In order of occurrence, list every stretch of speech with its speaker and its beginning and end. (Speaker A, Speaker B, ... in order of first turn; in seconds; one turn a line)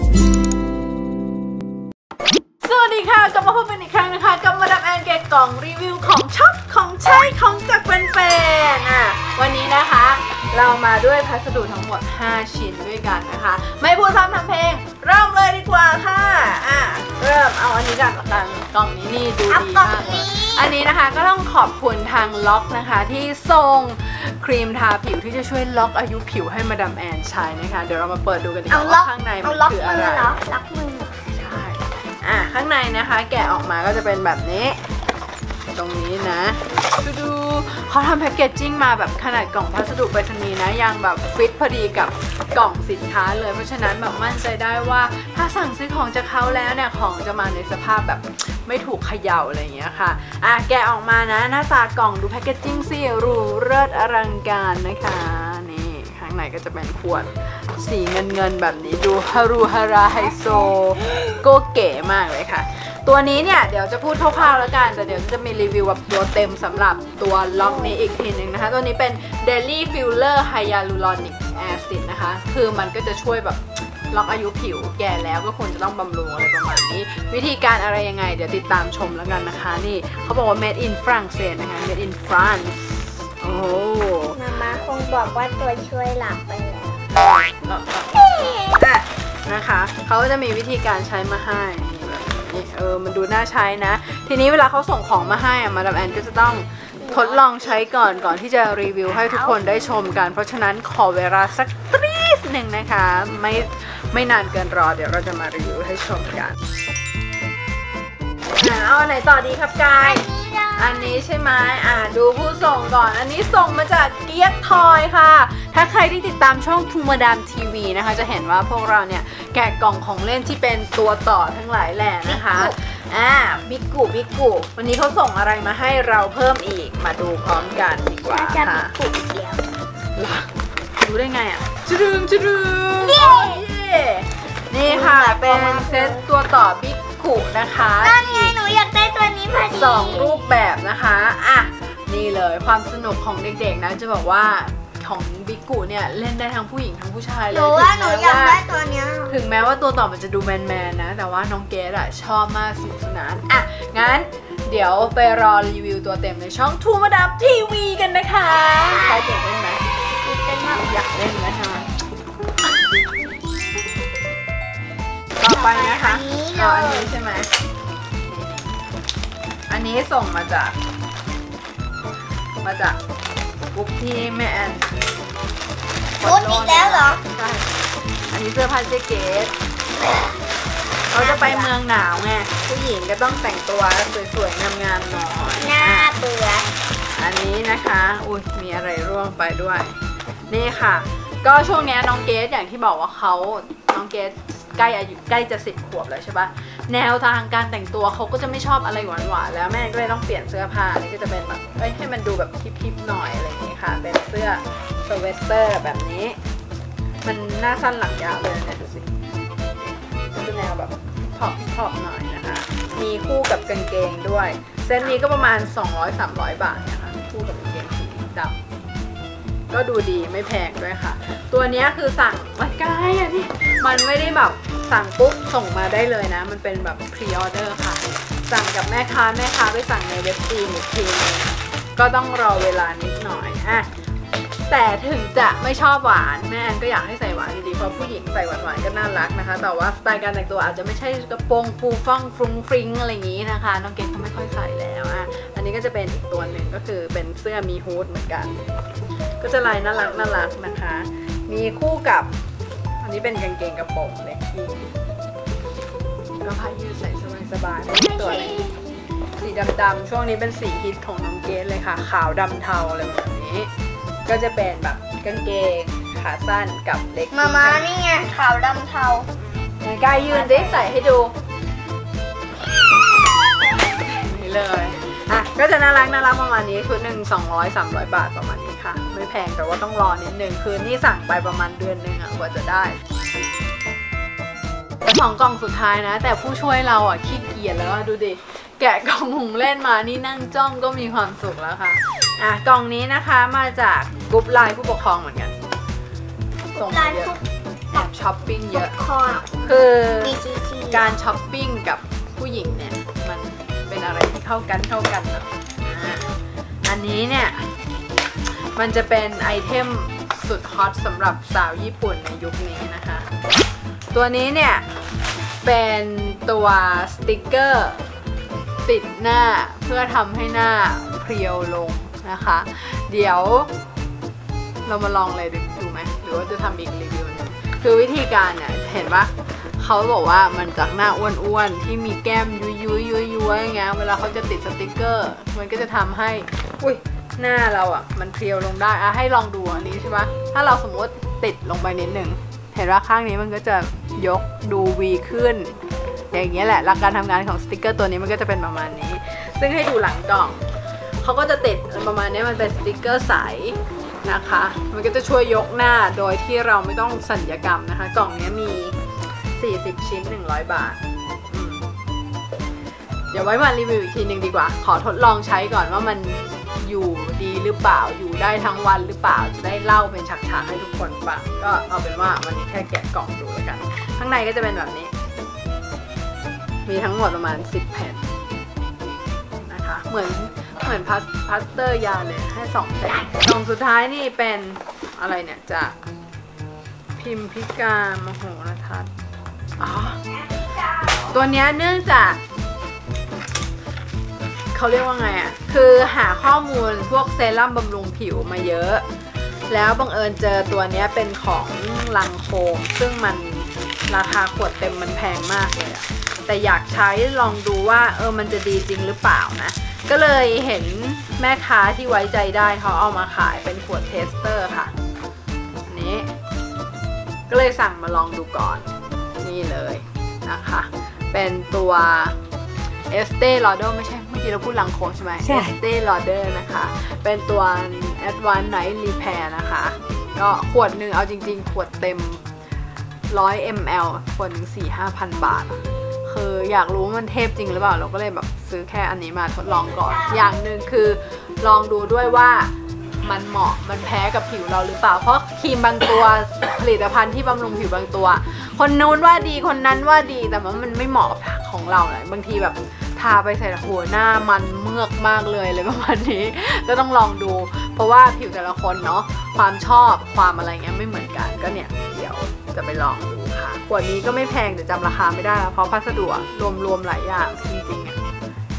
Speaker A: 2.6-30.4
Speaker B: 19.5-20.7
Speaker B: 28.7-31.4
Speaker A: 31.4-34.8
Speaker A: 35.7-84.4
Speaker B: 67.6-68.0
Speaker B: 84.3-87.0
Speaker A: 87.1-106.6
Speaker B: 88.2-88.8
Speaker B: 97.0-98.3
Speaker B: 99.1-99.6
Speaker A: 108.6-110.2
Speaker B: 110.0-111.2
Speaker A: 110.8-128.9
Speaker B: 122.2-122.8
Speaker B: 128.3-129.6
Speaker A: 130.2-138.6
Speaker B: 133.0-133.6
Speaker B: 134.8-136.2
Speaker B: 138.0-140.4
Speaker A: 139.7-148.6
Speaker B: 147.5-149.4
Speaker A: 149.3-159.8
Speaker B: 158.7-159.2
Speaker B: 160.2-160.9
Speaker A: 160.8-161.9
Speaker A: 165.4-167.5
Speaker B: 165.4-167.1
Speaker A: 168.3-168.7
Speaker A: 169.7-170.8
Speaker A: 172.6-173.0
Speaker A: 173.7-174.9
Speaker A: 176.2-177.7
Speaker B: 176.2-177.2
Speaker A: 178.3-179.5
Speaker A: 181.1-186.1
Speaker B: 181.1-181.7
Speaker B: 185.6-186.7
Speaker A: 187.2-190.0
Speaker A: 190.5-206.4
Speaker A: 207.2-209.1
Speaker A: 209.8-218.6
Speaker A: 219.7-233.9
Speaker A: 234.7-248.6
Speaker A: 249.4-252.3
Speaker A: 253.0-254.9
Speaker A: 256.4-258.7
Speaker B: 258.0-258.8
Speaker A: 259.4-263.7
Speaker A: 264.3-268.0
Speaker B: 267.3-269.3
Speaker A: 269.8-271.3
Speaker B: 270.1-270.9
Speaker A: 274.0-283.0
Speaker A: 285.0-295.6
Speaker B: 296.7-297.4
Speaker A: 296.8-297.4
Speaker A: 297.9-298.9
Speaker B: 298.7-299.7
Speaker A: 299.6-300.4
Speaker B: 300.2-301.1
Speaker A: 300.9-306.3
Speaker A: 306.8-307.7
Speaker A: 308.5-313.3
Speaker A: 314.1-314.9
Speaker A: 315.6-318.0
Speaker A: 318.9-323.7
Speaker A: 324.9-350.6
Speaker A: 351.2-359.0
Speaker A: 359.6-361.9
Speaker A: 363.3-375.1
Speaker A: 376.9-378.2
Speaker A: 379.6-385.9
Speaker A: 387.2-389.1
Speaker A: 389.8-390.2
Speaker B: 390.3-391.4
Speaker A: 391.3-392.4
Speaker A: 394.7-399.1
Speaker A: 399.7-414.9
Speaker A: 415.9-416.3
Speaker A: 417.5-418.9
Speaker A: 419.4-422.4
Speaker A: 423.1-432.4
Speaker A: 433.3-442.7
Speaker B: 440.1-440.5
Speaker A: 443.2-468.2